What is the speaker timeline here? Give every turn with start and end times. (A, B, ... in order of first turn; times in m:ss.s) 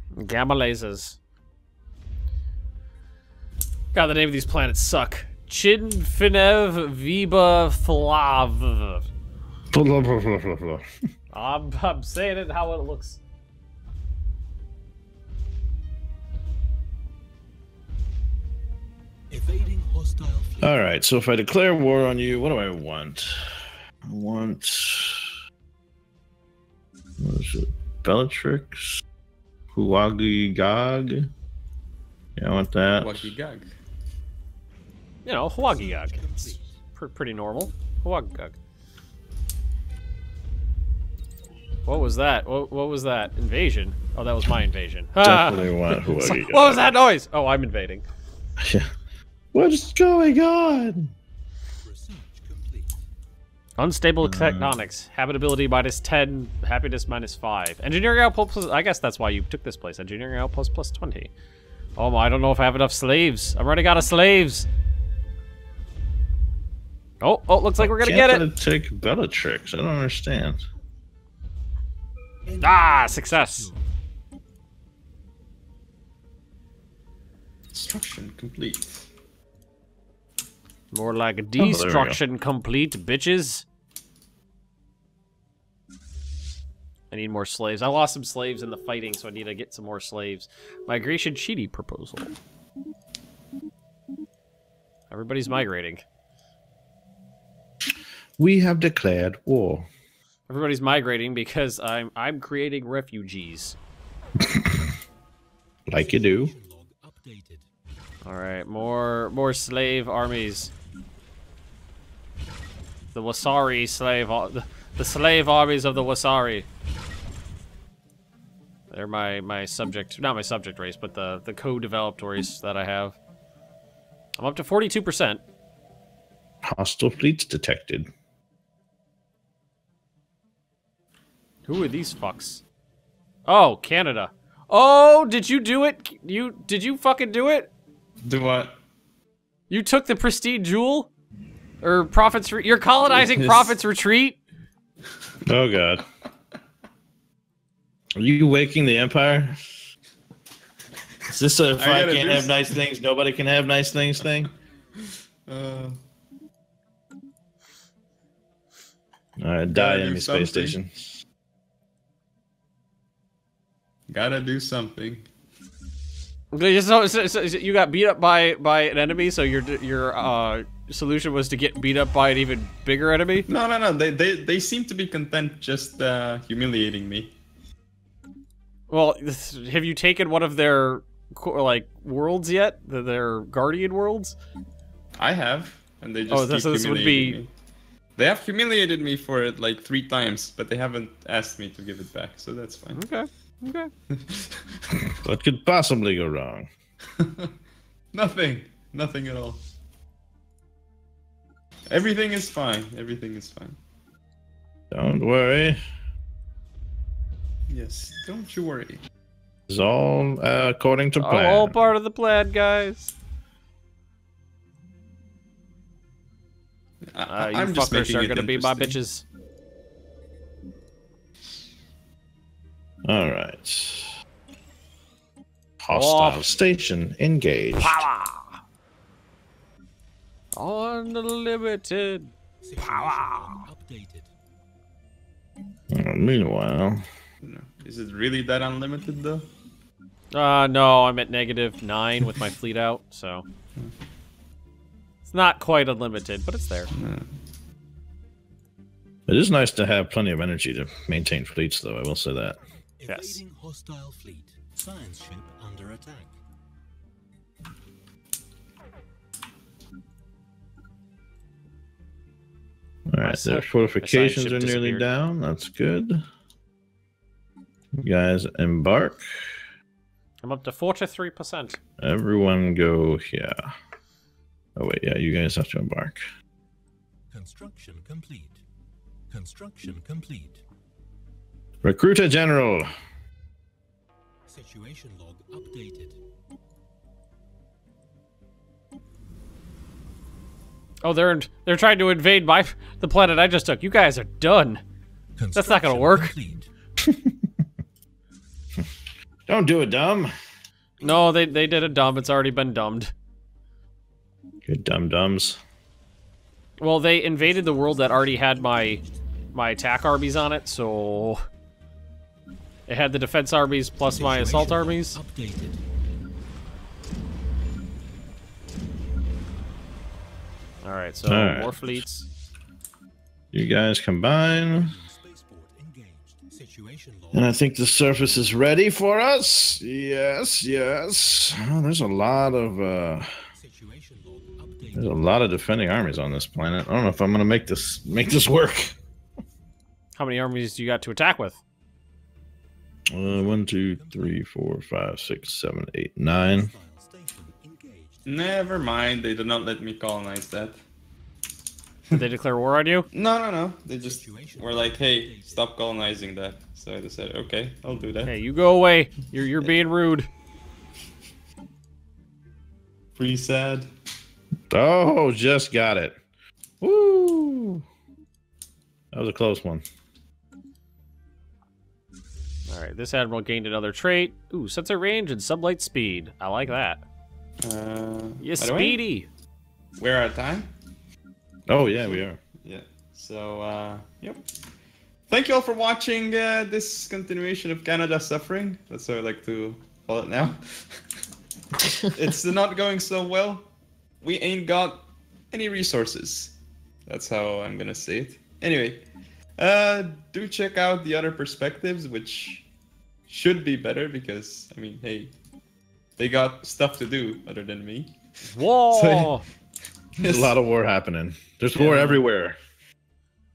0:00.2-0:01.2 A
0:03.9-0:09.0 A
0:09.7-0:10.8 B
0:11.3-0:13.2 A
0:19.3-0:20.8 C
0:20.6-0:25.3 B
0:27.2-0:29.0 B
0:29.7-0:31.3 B
0:32.4-0:33.3 B
0:33.0-0:33.7 D
0:35.2-0:38.6 A
0:35.6-0:36.8 C
0:41.8-0:48.0 A
0:45.2-0:46.9 B
0:48.6-0:48.9 B
0:49.5-0:51.1 B
0:51.8-0:53.0 C
0:53.8-1:01.3 A
0:54.2-0:54.8 B
1:02.0-1:04.7 A
1:07.2-1:08.4 A
1:07.8-1:10.6 B
1:12.4-1:13.9 C
1:12.6-1:13.7 A
1:17.7-1:19.1 D
1:20.9-1:23.6 A
1:21.6-1:22.2 B
1:27.1-1:32.3 A
1:35.1-1:36.0 A
1:38.4-1:39.9 B
1:40.5-1:43.8 A
1:44.4-1:44.9 B
1:45.9-1:46.5 B
1:45.9-1:47.7 C
1:48.2-1:50.7 A
1:53.1-1:56.7 A
1:58.9-2:03.2 A
2:04.4-2:05.4 A
2:06.6-2:08.1 B
2:11.7-2:12.6 A
2:13.4-2:17.7 A
2:18.2-2:18.8 D
2:19.7-2:21.1 A
2:21.8-2:24.4 A
2:23.1-2:23.8 D
2:25.4-2:26.0 B
2:28.2-2:29.6 B
2:31.3-2:34.5 B
2:31.8-2:32.8 D
2:35.5-2:36.0 D
2:39.4-2:41.2 B
2:39.7-2:40.8 D
2:44.1-2:45.3 D
2:46.5-2:53.5 A
2:53.5-2:57.3 D
2:58.9-3:04.4 A
3:05.2-3:07.5 D
3:06.3-3:07.4 A
3:08.2-3:13.0 D
3:12.9-3:13.9 A
3:14.1-3:14.6 D
3:15.1-3:16.7 B
3:17.2-3:17.5 D
3:18.1-3:19.6 D
3:21.9-3:23.8 D
3:24.9-3:25.8 B
3:27.7-3:29.0 D
3:29.7-3:31.7 B
3:31.2-3:33.1 A
3:37.1-3:39.0 D
3:37.3-3:39.2 A
3:43.0-3:44.1 B
3:45.8-3:48.0 B
3:45.9-3:46.5 A
3:47.8-3:48.6 A
3:50.6-3:53.7 A
3:52.6-3:54.3 C
3:55.9-3:57.0 B
3:57.4-3:59.5 D
4:00.3-4:03.4 A
4:05.2-4:06.9 A
4:06.9-4:07.3 D
4:09.3-4:12.6 B
4:13.0-4:16.4 C
4:13.1-4:13.4 A
4:23.1-4:26.2 B
4:23.2-4:25.0 A
4:28.0-4:29.5 B
4:30.4-4:31.8 A
4:32.0-4:33.7 B
4:34.8-4:36.2 B
4:37.3-4:38.6 C
4:39.3-4:40.6 C
4:41.8-4:42.9 B
4:44.5-4:46.2 C
4:51.0-4:54.8 A
4:55.4-4:56.7 C
4:55.5-4:56.3 A
4:57.0-4:57.5 B
4:59.5-5:00.3 B
5:01.0-5:03.1 A
5:04.6-5:05.6 B
5:06.8-5:09.0 A
5:07.4-5:09.2 C
5:09.5-5:11.4 A
5:12.9-5:15.2 A
5:14.0-5:15.8 C
5:20.8-5:22.2 A
5:21.3-5:22.0 B
5:23.5-5:25.0 B
5:24.5-5:27.5 C
5:27.3-5:33.3 B
5:33.5-5:35.2 C
5:35.0-5:38.9 B
5:40.2-5:41.6 A
5:43.1-5:46.7 B
5:43.3-5:44.4 C
5:46.4-5:48.3 C
5:48.2-5:50.8 D
5:52.1-5:53.1 A
5:53.1-5:58.3 D
5:54.0-5:55.7 C
5:58.2-6:00.3 A
6:03.2-6:03.9 D
6:04.7-6:06.2 B
6:06.8-6:07.8 B
6:09.1-6:09.8 B
6:12.7-6:17.0 A
6:17.6-6:19.0 D
6:18.4-6:19.3 A
6:20.0-6:20.7 D
6:21.7-6:22.4 B
6:22.0-6:24.4 D
6:25.3-6:31.0 D
6:32.0-6:33.7 D
6:34.2-6:36.5 D
6:37.1-6:39.0 D
6:39.6-6:42.6 D
6:43.3-6:45.3 D
6:46.2-6:48.2 D
6:48.5-6:49.4 A
6:48.9-6:49.4 D
6:50.2-6:50.6 D
6:50.2-6:52.6 B
6:51.7-6:52.2 D